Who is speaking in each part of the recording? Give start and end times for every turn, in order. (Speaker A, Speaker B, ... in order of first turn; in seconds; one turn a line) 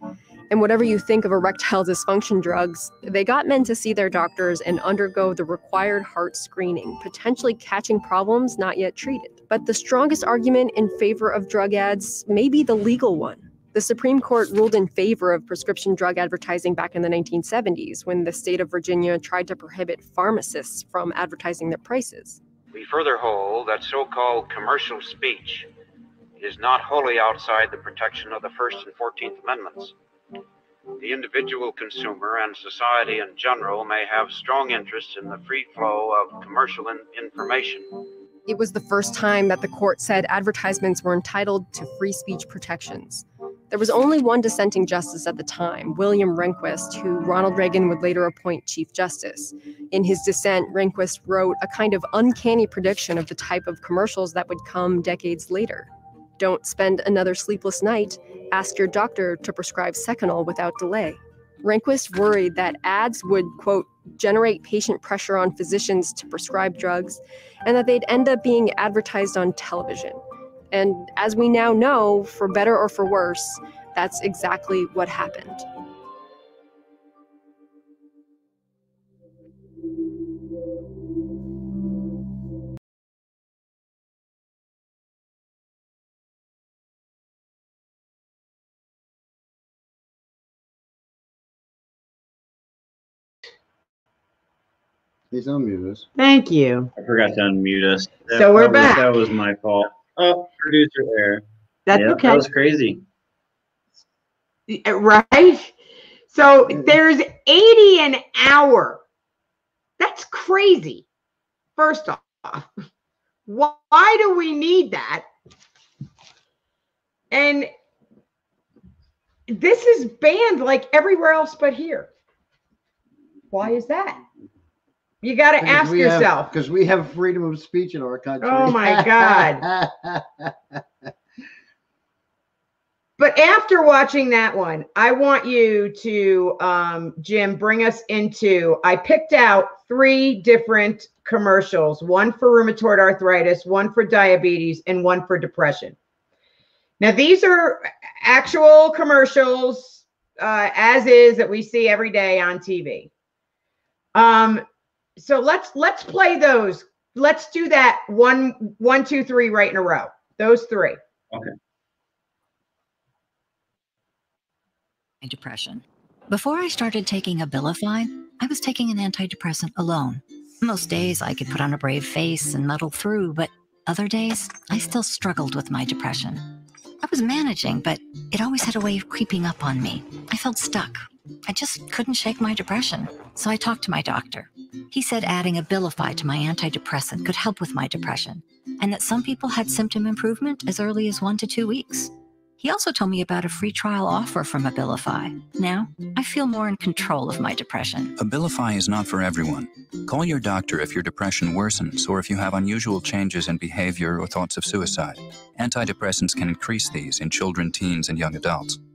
Speaker A: 0.5-22.4
Speaker B: 22.7-25.7
Speaker B: 26.4-29.9
Speaker B: 31.0-37.9
Speaker A: 38.5-75.6
Speaker C: 95.3-96.0
Speaker D: 96.2-96.9
Speaker E: 97.0-103.0
Speaker D: 98.3-99.2
Speaker D: 101.9-102.4
Speaker D: 104.7-105.7
Speaker D: 106.3-109.0
Speaker D: 110.0-111.0
Speaker D: 111.8-112.7
Speaker D: 113.5-115.2
Speaker D: 117.3-117.7
Speaker D: 119.5-122.1
Speaker D: 123.5-124.2
Speaker D: 125.2-126.5
Speaker C: 125.6-130.5
Speaker D: 128.4-129.6
Speaker D: 133.2-145.9
Speaker D: 147.0-153.1
Speaker D: 154.1-154.6
Speaker D: 155.2-161.0
Speaker F: 165.2-176.5
Speaker F: 177.0-198.1
Speaker G: 198.2-208.8